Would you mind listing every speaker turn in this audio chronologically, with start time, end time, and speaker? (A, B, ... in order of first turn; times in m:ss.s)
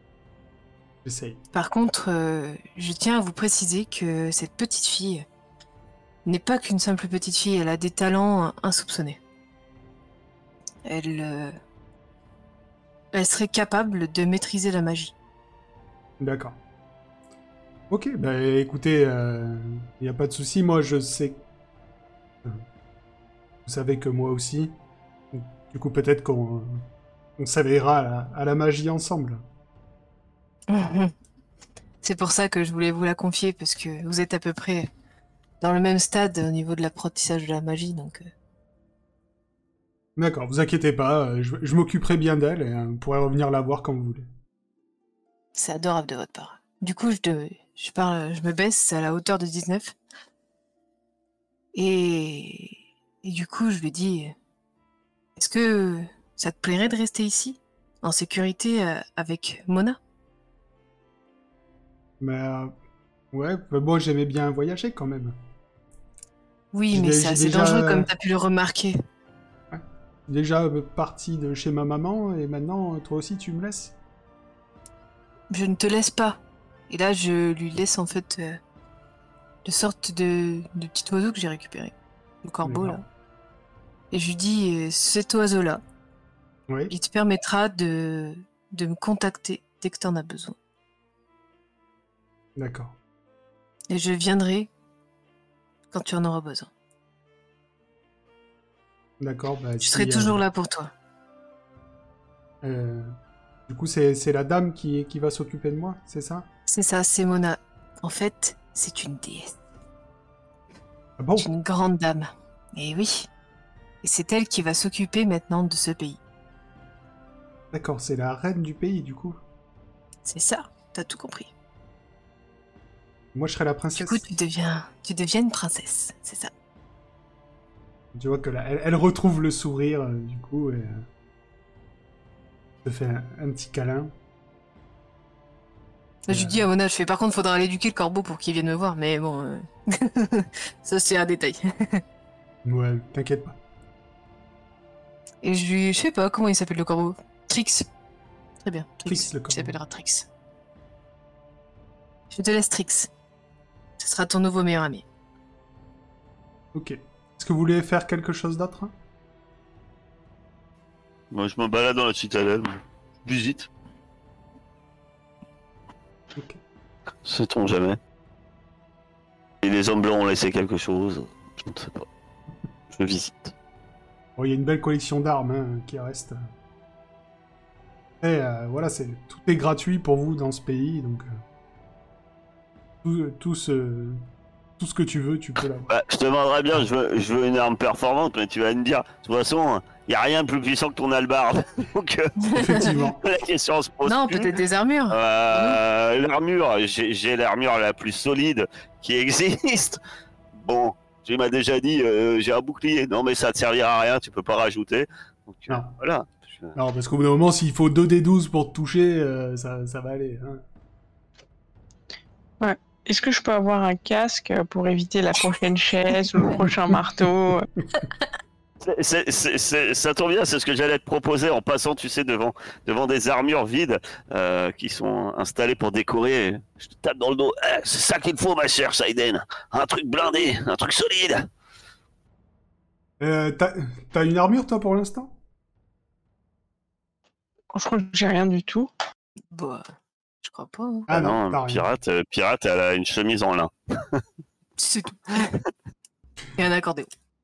0:01.0-0:01.4 A
0:01.5-0:05.2 B
0:06.2-0:09.2 B
0:10.8-0:11.6 B
0:13.1-0:15.1 B
0:16.2-0:16.6 A
0:17.9-0:21.4 A
0:23.6-0:24.8 A
0:25.3-0:26.8 A
0:27.4-0:29.4 A
0:30.7-0:31.1 B
0:32.0-0:34.9 B
0:35.6-0:38.3 B
0:40.2-0:44.3 A
0:45.6-0:49.9 B
0:51.7-0:54.3 B
0:55.4-1:00.0 B
1:02.2-1:02.7 A
1:03.3-1:05.4 A
1:06.7-1:09.0 B
1:06.9-1:08.1 A
1:09.7-1:13.9 A
1:15.5-1:18.6 B
1:19.6-1:23.0 B
1:22.6-1:23.0 A
1:24.1-1:25.8 B
1:26.9-1:30.6 B
1:32.6-1:33.0 A
1:33.9-1:34.7 B
1:35.9-1:36.7 B
1:39.2-1:40.4 A
1:39.8-1:40.9 B
1:42.6-1:43.1 A
1:43.7-1:46.5 A
1:46.7-1:49.6 B
1:51.2-1:51.5 A
1:51.4-1:53.3 B
1:54.0-1:56.2 B
1:57.7-1:59.4 A
2:00.2-2:01.5 B
2:03.3-2:04.2 A
2:03.9-2:06.5 B
2:08.1-2:11.0 A
2:12.8-2:14.1 A
2:16.3-2:22.0 B
2:16.3-2:16.6 A
2:22.6-2:23.6 A
2:25.4-2:27.9 B
2:28.6-2:30.3 B
2:29.0-2:29.8 A
2:32.3-2:33.1 B
2:34.0-2:35.0 B
2:36.7-2:38.9 A
2:41.3-2:43.7 C
2:47.2-2:48.0 C
2:49.6-2:52.1 C
2:52.9-2:53.5 C
2:54.4-2:56.4 A
2:58.2-3:01.4 A
3:03.0-3:04.2 A
3:04.8-3:05.9 A
3:05.9-3:14.6 C
3:12.4-3:12.9 B
3:12.5-3:13.2 A
3:14.0-3:15.8 B
3:15.1-3:20.0 C
3:20.5-3:26.8 C
3:26.7-3:30.6 A
3:32.6-3:37.7 D
3:38.8-3:51.5 C
3:53.2-3:55.3 A
3:57.7-3:58.9 D
3:59.5-3:59.8 B
4:00.4-4:01.1 B
4:01.1-4:01.9 A
4:01.1-4:04.2 C
4:04.8-4:05.5 B
4:06.6-4:07.1 B